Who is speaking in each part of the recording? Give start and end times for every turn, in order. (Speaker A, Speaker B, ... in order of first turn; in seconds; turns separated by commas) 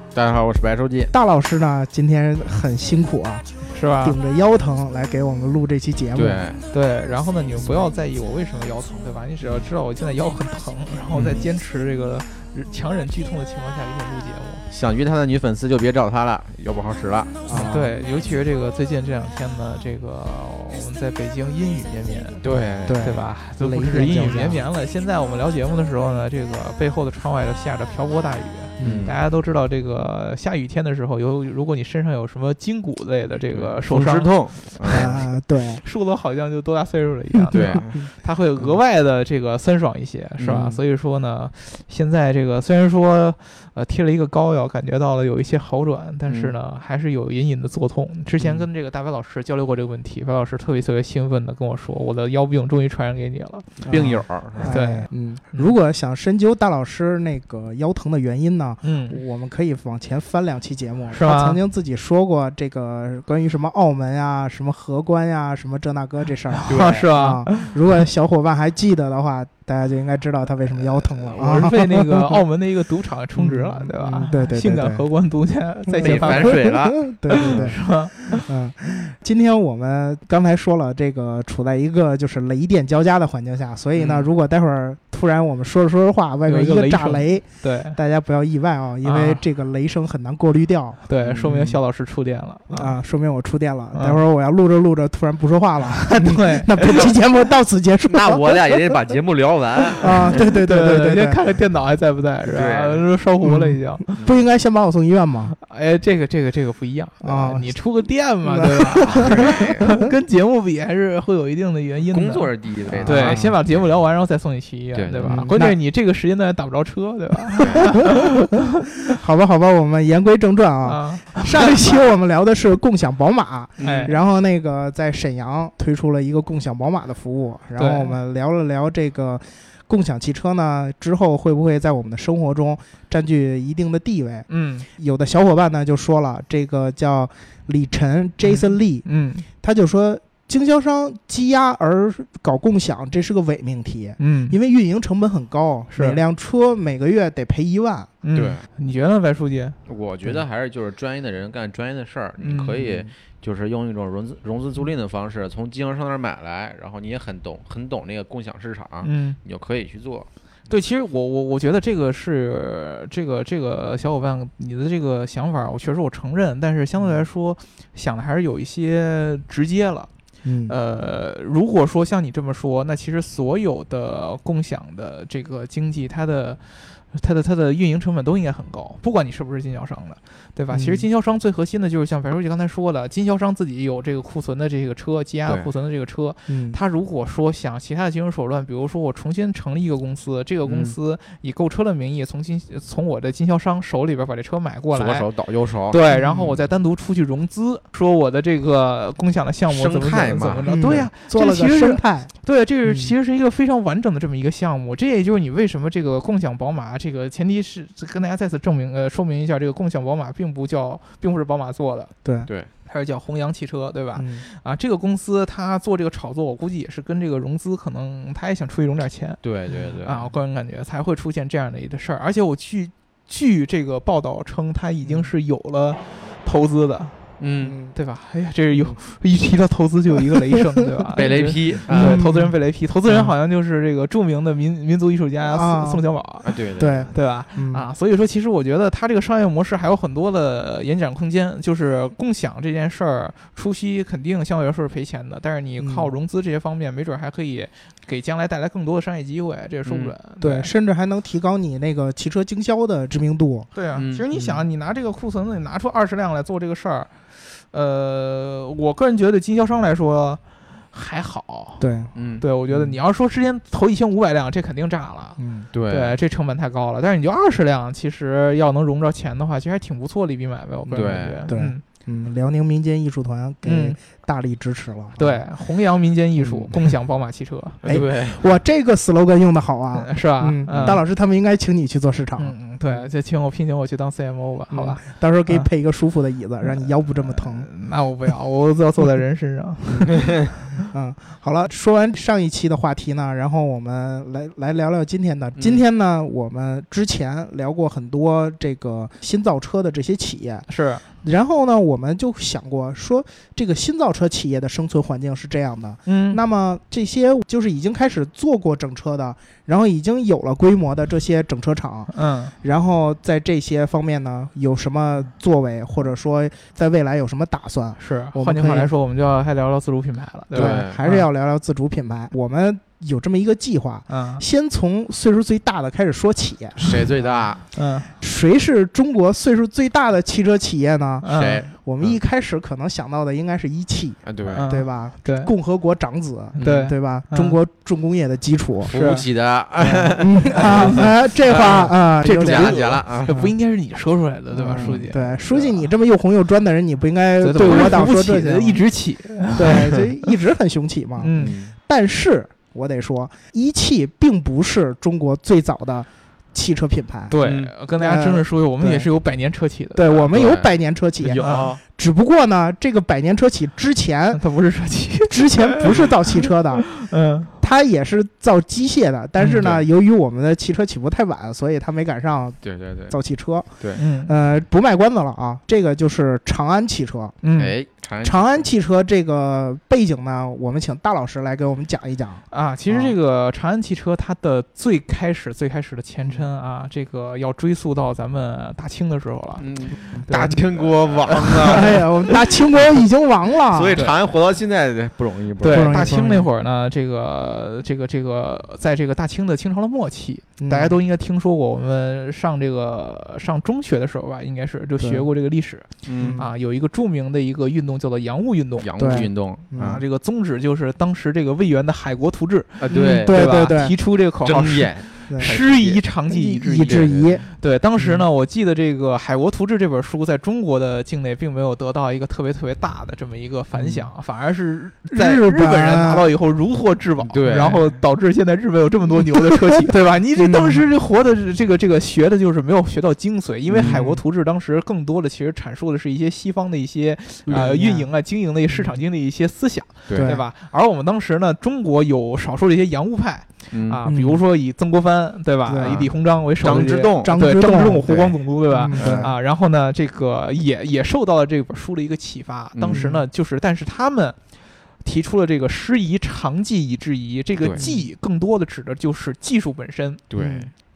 Speaker A: 0.1-1.1, Speaker B: 1.1-3.5, Speaker C: 3.7-4.2, Speaker B: 4.0-6.4, Speaker A: 6.1-6.6, Speaker C: 6.7-14.7, Speaker A: 11.1-11.4, Speaker A: 14.7-17.4, Speaker B: 17.4-17.9, Speaker C: 17.5-53.8, Speaker A: 22.4-23.2, Speaker B: 22.8-24.6, Speaker B: 28.8-29.1, Speaker A: 28.8-29.2, Speaker A: 33.5-35.2, Speaker B: 34.9-35.8, Speaker A: 37.5-38.0, Speaker A: 40.4-40.8, Speaker A: 46.3-46.5, Speaker B: 53.8-72.1, Speaker A: 53.9-54.7, Speaker C: 54.6-55.7, Speaker C: 58.8-59.2, Speaker C: 61.1-61.6, Speaker C: 66.5-67.7, Speaker A: 66.7-67.0, Speaker C: 71.3-78.5, Speaker B: 73.3-75.1, Speaker B: 75.9-91.8, Speaker A: 76.0-77.7, Speaker A: 84.0-84.2, Speaker C: 86.5-88.0, Speaker C: 89.0-89.4, Speaker C: 91.1-92.9, Speaker B: 92.7-99.0, Speaker C: 93.9-94.2, Speaker C: 96.1-97.1, Speaker A: 98.1-100.4, Speaker B: 100.0-101.4, Speaker C: 100.0-104.0, Speaker A: 102.4-103.0, Speaker B: 103.4-105.5, Speaker A: 104.2-104.4, Speaker C: 105.6-118.6, Speaker B: 107.2-107.7, Speaker B: 108.4-110.1, Speaker A: 109.2-109.8, Speaker A: 112.1-113.5, Speaker B: 112.9-113.6, Speaker A: 114.9-115.5, Speaker B: 115.2-115.8, Speaker A: 117.6-117.9, Speaker B: 117.9-118.2, Speaker B: 119.0-139.1, Speaker C: 120.8-122.0, Speaker A: 123.8-124.1, Speaker C: 123.8-124.2, Speaker C: 127.8-128.2, Speaker C: 134.5-134.9, Speaker C: 138.4-139.4, Speaker B: 139.6-148.1, Speaker C: 144.2-144.6, Speaker C: 145.9-146.2, Speaker C: 148.2-149.8, Speaker A: 148.3-148.7, Speaker A: 149.9-160.3, Speaker C: 152.4-152.8, Speaker C: 159.0-159.4, Speaker C: 160.7-170.1, Speaker B: 170.4-170.7, Speaker C: 170.7-195.3, Speaker B: 180.7-181.1, Speaker B: 186.5-186.8, Speaker A: 190.7-190.9, Speaker A: 194.9-196.0, Speaker C: 195.9-212.1, Speaker B: 196.1-196.6, Speaker A: 199.7-201.1, Speaker B: 200.7-202.3, Speaker B: 202.8-203.1, Speaker B: 212.2-212.5, Speaker C: 212.8-219.5, Speaker B: 214.1-214.4, Speaker A: 219.4-220.2, Speaker B: 219.7-219.9, Speaker C: 220.0-227.3, Speaker B: 225.0-225.3, Speaker A: 227.4-227.8, Speaker B: 227.6-227.9, Speaker C: 227.9-236.6, Speaker B: 228.7-229.0, Speaker A: 231.2-232.2, Speaker B: 231.9-232.5, Speaker B: 233.1-233.3, Speaker B: 235.5-236.1, Speaker A: 236.4-237.1, Speaker B: 236.8-237.8, Speaker C: 237.1-250.7, Speaker B: 245.8-246.1, Speaker A: 249.8-250.1, Speaker B: 250.4-253.7, Speaker C: 253.7-260.4, Speaker A: 253.9-254.2, Speaker B: 254.3-254.6, Speaker C: 260.9-261.8, Speaker B: 261.8-262.1, Speaker A: 262.1-262.4, Speaker C: 262.4-271.8, Speaker B: 265.4-265.7, Speaker A: 265.7-266.2, Speaker B: 270.9-275.4, Speaker A: 270.9-271.5, Speaker C: 273.6-274.0, Speaker C: 275.1-278.0, Speaker B: 276.4-276.9, Speaker A: 277.8-278.5, Speaker B: 277.8-283.0, Speaker C: 279.9-281.0, Speaker A: 280.7-281.0, Speaker C: 282.4-285.7, Speaker B: 284.7-287.7, Speaker C: 287.1-290.3, Speaker B: 290.8-300.7, Speaker A: 295.6-295.8, Speaker C: 300.7-301.0, Speaker B: 301.2-318.9, Speaker C: 306.1-306.4, Speaker C: 312.1-312.5, Speaker C: 318.0-321.2, Speaker A: 320.5-321.0, Speaker B: 320.5-327.4, Speaker C: 324.1-324.4, Speaker A: 326.8-327.6, Speaker C: 327.7-328.1, Speaker B: 328.2-338.9, Speaker C: 331.2-331.6, Speaker A: 331.3-332.2, Speaker A: 334.2-334.6, Speaker C: 334.5-335.5, Speaker A: 336.6-336.9, Speaker C: 336.6-337.6, Speaker A: 338.8-343.3, Speaker C: 338.9-339.2, Speaker B: 339.8-343.5, Speaker C: 340.5-345.4, Speaker B: 344.5-348.8, Speaker A: 344.8-345.7, Speaker C: 347.4-350.4, Speaker B: 349.6-357.4, Speaker C: 351.2-351.6, Speaker A: 351.4-351.7, Speaker C: 357.3-360.2, Speaker A: 357.4-357.7, Speaker B: 358.0-359.1, Speaker B: 359.9-364.4, Speaker A: 360.3-360.7, Speaker A: 361.2-361.8, Speaker C: 361.4-361.7, Speaker C: 364.3-367.5, Speaker B: 365.3-366.9, Speaker B: 367.6-377.4, Speaker C: 369.4-369.7, Speaker A: 369.6-369.8, Speaker A: 372.6-373.1, Speaker C: 373.9-374.3, Speaker C: 377.4-377.7, Speaker A: 377.6-378.7, Speaker B: 378.2-383.1, Speaker C: 382.5-392.3, Speaker A: 389.6-392.9, Speaker B: 391.6-394.1, Speaker A: 393.7-396.2, Speaker C: 395.6-409.2, Speaker B: 395.6-396.5, Speaker B: 400.6-401.0, Speaker B: 405.0-405.2, Speaker A: 406.0-406.4, Speaker B: 406.1-406.5, Speaker A: 408.8-410.0, Speaker B: 409.0-410.0, Speaker C: 409.8-454.4, Speaker A: 412.8-413.7, Speaker B: 412.9-413.9, Speaker A: 414.4-416.0, Speaker B: 416.3-417.4, Speaker A: 416.8-417.4, Speaker B: 418.0-418.2, Speaker B: 425.1-426.3, Speaker A: 427.3-427.8, Speaker B: 427.5-427.8, Speaker B: 429.6-430.8, Speaker A: 433.7-434.0, Speaker B: 433.8-434.2, Speaker A: 437.5-437.8, Speaker B: 437.5-438.1, Speaker B: 438.7-439.0, Speaker B: 440.1-440.4, Speaker A: 443.7-444.0, Speaker B: 444.1-444.4, Speaker B: 445.6-446.1, Speaker A: 445.8-446.1, Speaker A: 446.6-448.4, Speaker B: 447.2-448.1, Speaker B: 448.7-449.3, Speaker A: 448.9-449.3, Speaker A: 452.7-453.1, Speaker B: 452.9-453.2, Speaker C: 455.0-460.2, Speaker B: 457.8-458.1, Speaker A: 460.3-460.7, Speaker B: 460.3-460.7